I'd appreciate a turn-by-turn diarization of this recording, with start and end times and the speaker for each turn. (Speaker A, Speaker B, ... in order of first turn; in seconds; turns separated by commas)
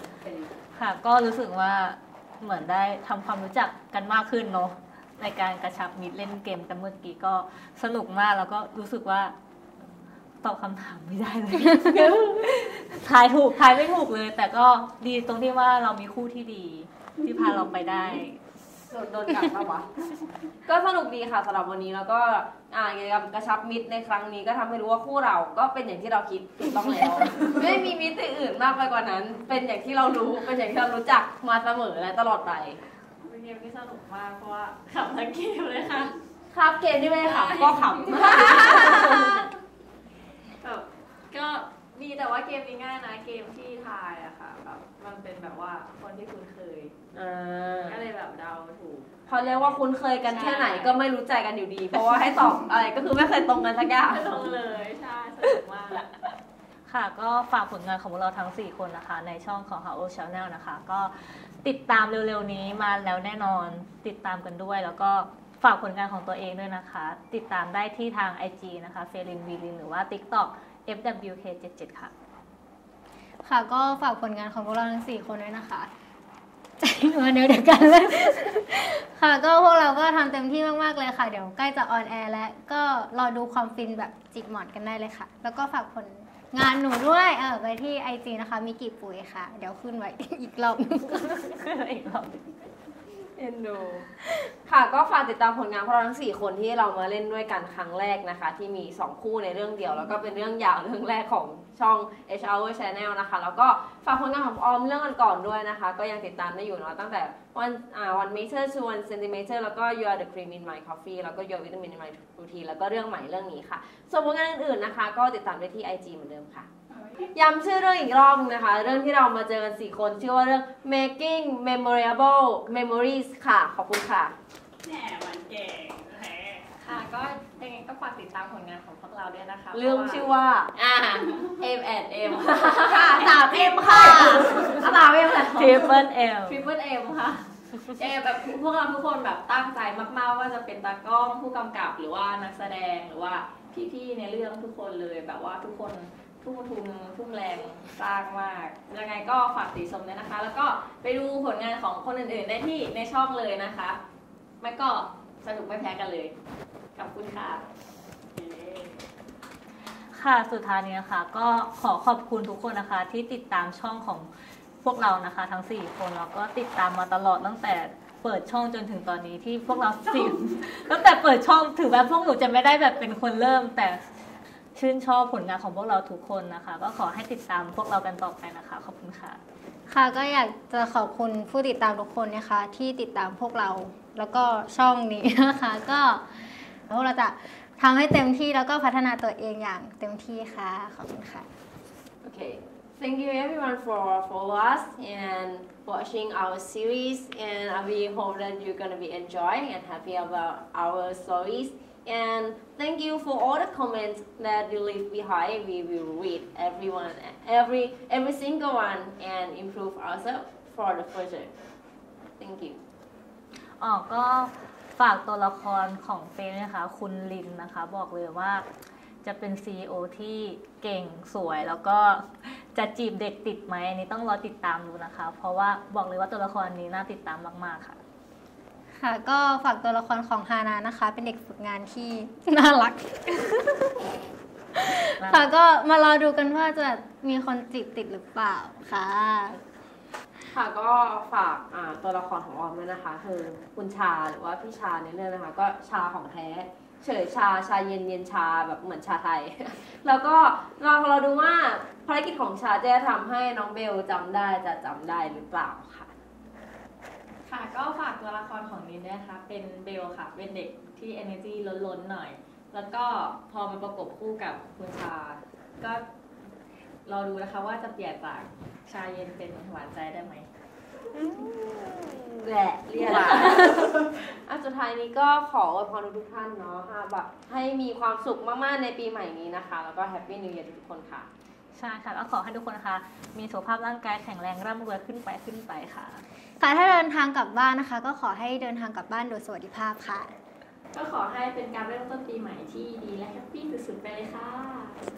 Speaker A: 0.2-0.6, Speaker B: 0.7-9.3, Speaker B: 10.4-18.4, Speaker C: 11.8-12.1, Speaker A: 17.3-17.6, Speaker D: 18.9-19.9, Speaker D: 20.6-32.8, Speaker E: 33.2-36.1, Speaker D: 36.5-39.3, Speaker E: 38.1-39.4, Speaker A: 38.2-38.7, Speaker E: 40.6-46.9, Speaker D: 47.1-48.0, Speaker E: 47.8-51.0, Speaker D: 49.3-54.4, Speaker E: 54.0-56.1, Speaker B: 56.9-72.1, Speaker C: 73.4-75.9, Speaker C: 76.8-91.3, Speaker B: 91.1-92.4, Speaker D: 93.3-94.1, Speaker D: 94.7-116.7, Speaker A: 117.0-117.3, Speaker D: 117.3-124.3, Speaker A: 124.8-126.7, Speaker E: 126.8-154.0, Speaker D: 129.7-131.2, Speaker D: 132.7-135.7, Speaker B: 135.5-136.6, Speaker E: 154.6-156.3, Speaker E: 156.9-157.6, Speaker A: 158.4-159.0, Speaker B: 160.1-164.3, Speaker B: 164.8-174.0, Speaker B: 174.7-179.4, Speaker C: 179.9-191.5, Speaker D: 192.2-211.5, Speaker D: 212.4-212.8, Speaker B: 213.8-218.6, Speaker B: 219.2-228.0, Speaker C: 228.9-233.9, Speaker C: 234.7-239.6, Speaker B: 235.2-235.4, Speaker D: 240.5-256.1, Speaker E: 257.4-266.0, Speaker E: 267.0-270.5, Speaker D: 272.4-281.3, Speaker B: 281.7-286.2, Speaker C: 286.6-290.3, Speaker E: 290.9-295.0